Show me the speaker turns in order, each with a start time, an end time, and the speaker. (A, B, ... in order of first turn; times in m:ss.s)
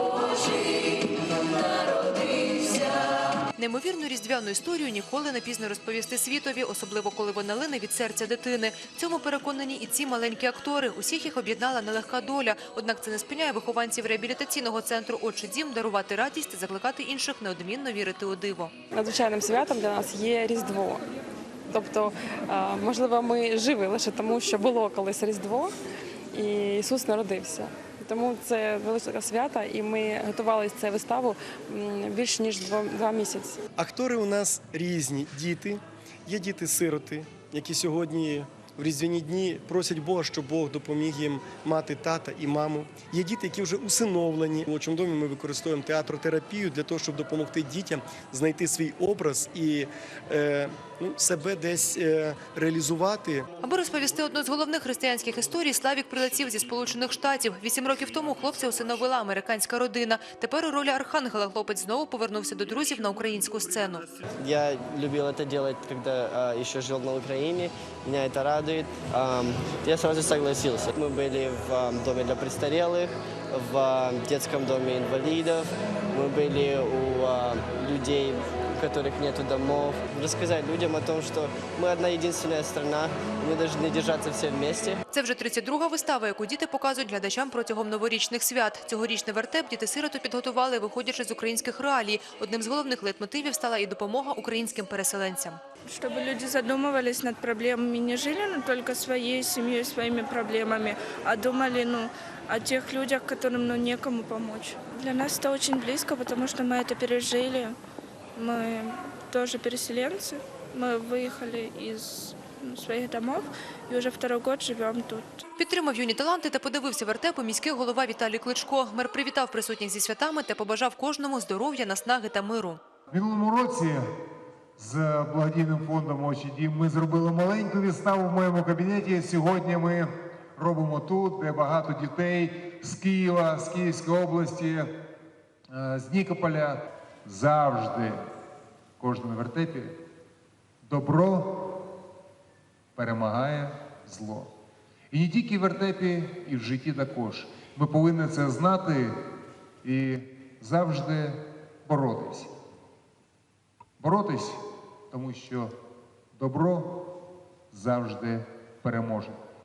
0:03.6-0:18.7 A
0:18.9-0:21.0 B
0:21.7-0:25.7 B
0:26.3-0:33.6 B
0:33.8-0:53.5 C
0:53.6-1:04.1 A
1:04.4-1:25.0 D
1:25.1-1:35.6 A
1:35.9-1:47.7 E
1:48.4-1:55.4 E
1:55.6-2:02.8 A
2:03.1-2:04.0 F
2:04.8-2:14.9 F
2:15.7-2:18.2 F
2:19.0-2:20.0 F
2:20.8-2:21.8 F
2:23.0-2:24.5 F
2:25.1-2:29.1 F
2:29.8-2:32.5 F
2:34.0-2:35.7 F
2:36.4-2:37.1 F
2:37.7-2:39.4 F